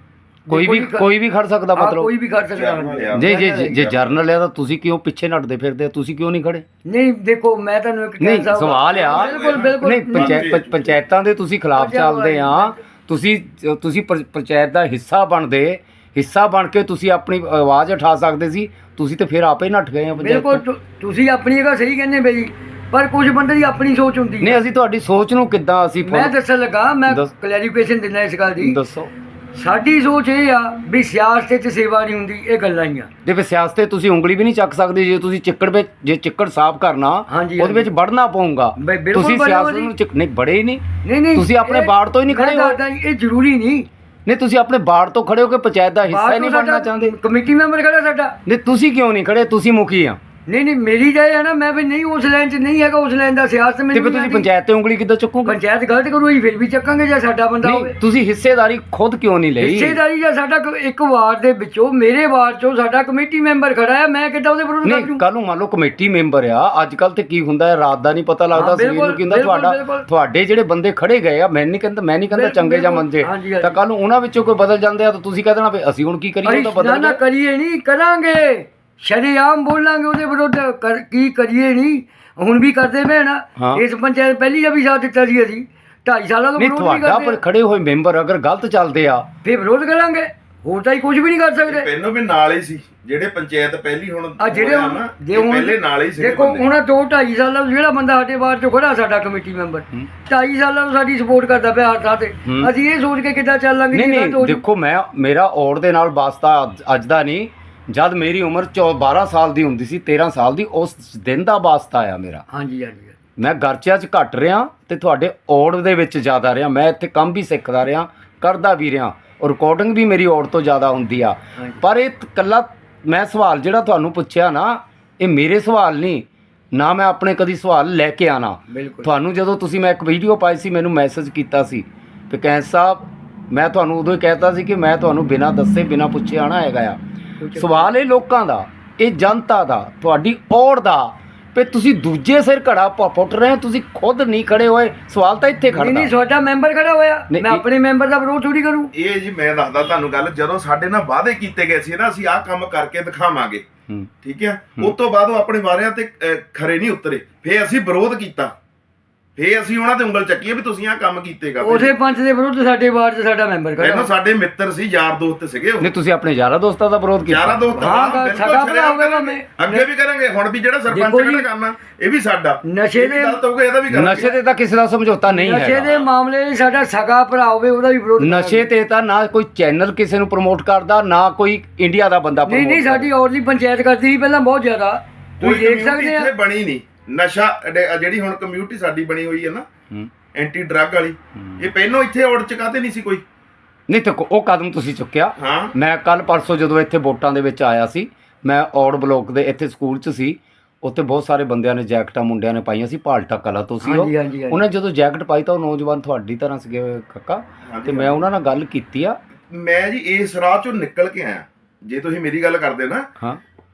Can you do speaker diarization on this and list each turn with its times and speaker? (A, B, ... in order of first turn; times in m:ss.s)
0:00.5-0:01.1 A
0:00.5-0:02.1 B
0:01.8-0:03.8 A
0:02.5-0:04.1 C
0:03.2-0:06.6 B
0:06.8-0:10.5 A
0:08.2-0:20.6 B
0:08.7-0:11.0 C
0:11.7-0:12.8 A
0:20.2-0:24.6 A
0:24.4-0:26.3 B
0:26.0-0:28.8 A
0:28.6-0:29.1 B
0:29.5-0:33.1 A
0:33.2-0:42.8 B
0:37.3-0:37.9 A
0:38.8-0:39.9 A
0:41.0-0:43.9 A
0:44.2-0:47.1 B
0:46.1-0:48.4 A
0:48.4-0:50.2 B
0:50.5-0:54.5 A
0:53.9-0:55.5 B
0:55.4-0:58.0 A
0:57.6-1:00.0 B
0:59.6-1:05.2 A
1:04.8-1:17.2 B
1:08.5-1:10.1 A
1:12.3-1:13.8 A
1:16.4-1:27.4 A
1:23.6-1:23.8 B
1:26.6-1:29.3 B
1:29.4-1:31.9 A
1:31.7-1:36.7 C
1:34.4-1:44.6 A
1:42.4-1:42.7 B
1:43.9-1:52.4 B
1:52.5-1:53.2 A
1:53.4-2:17.0 B
2:08.7-2:09.1 A
2:17.4-2:17.9 A
2:17.6-2:26.1 B
2:25.7-2:28.9 A
2:27.3-2:27.6 B
2:28.9-2:33.6 C
2:34.2-2:38.5 C
2:39.4-2:41.9 C
2:41.6-2:44.1 A
2:43.8-2:45.9 C
2:45.8-2:47.7 B
2:47.3-2:54.3 C
2:47.8-2:49.8 A
2:50.9-2:51.5 A
2:52.6-2:53.4 A
2:53.9-2:55.9 B
2:55.3-2:58.7 A
2:58.2-3:03.1 B
3:02.5-3:06.3 A
3:05.4-3:09.6 C
3:10.3-3:13.2 C
3:13.9-3:29.2 B
3:15.4-3:15.7 C
3:23.8-3:24.6 A
3:27.7-3:28.2 C
3:29.5-3:33.1 C